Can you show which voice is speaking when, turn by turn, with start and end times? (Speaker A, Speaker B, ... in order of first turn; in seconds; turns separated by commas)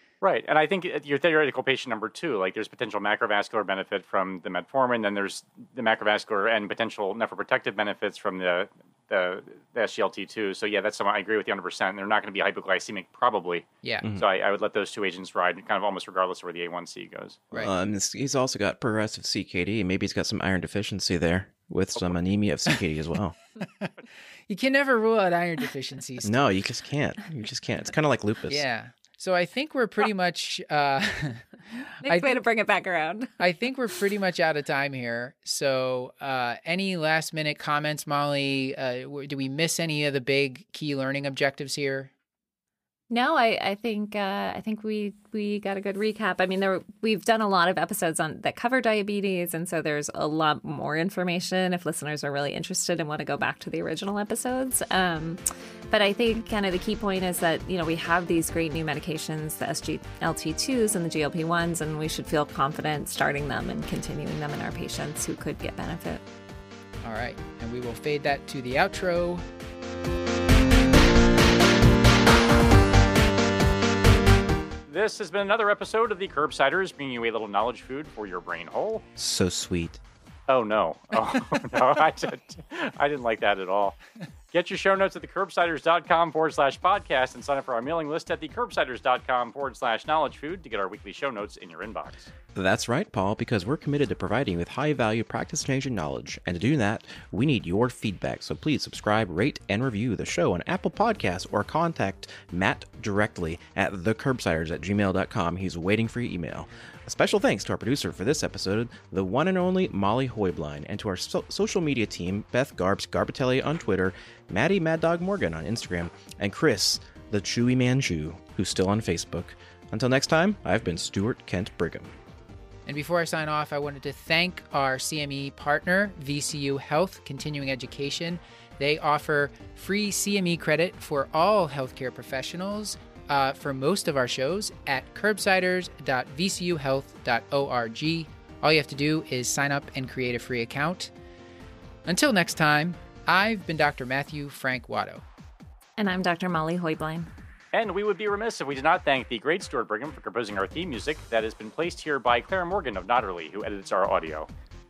Speaker A: 0.2-17.4, Speaker B: 17.5-23.4, Speaker C: 24.5-26.3, Speaker B: 26.2-28.6, Speaker C: 28.5-31.4, Speaker C: 32.0-32.4, Speaker D: 32.0-33.3, Speaker C: 33.4-42.1, Speaker D: 43.1-66.2, Speaker C: 67.0-69.4, Speaker A: 74.9-79.0, Speaker B: 79.2-80.0, Speaker A: 80.5-84.0, Speaker A: 84.5-92.3, Speaker B: 92.5-122.1, Speaker C: 122.8-141.1, Speaker C: 142.1-145.2, Speaker D: 146.0-147.3, Speaker A: 147.7-154.5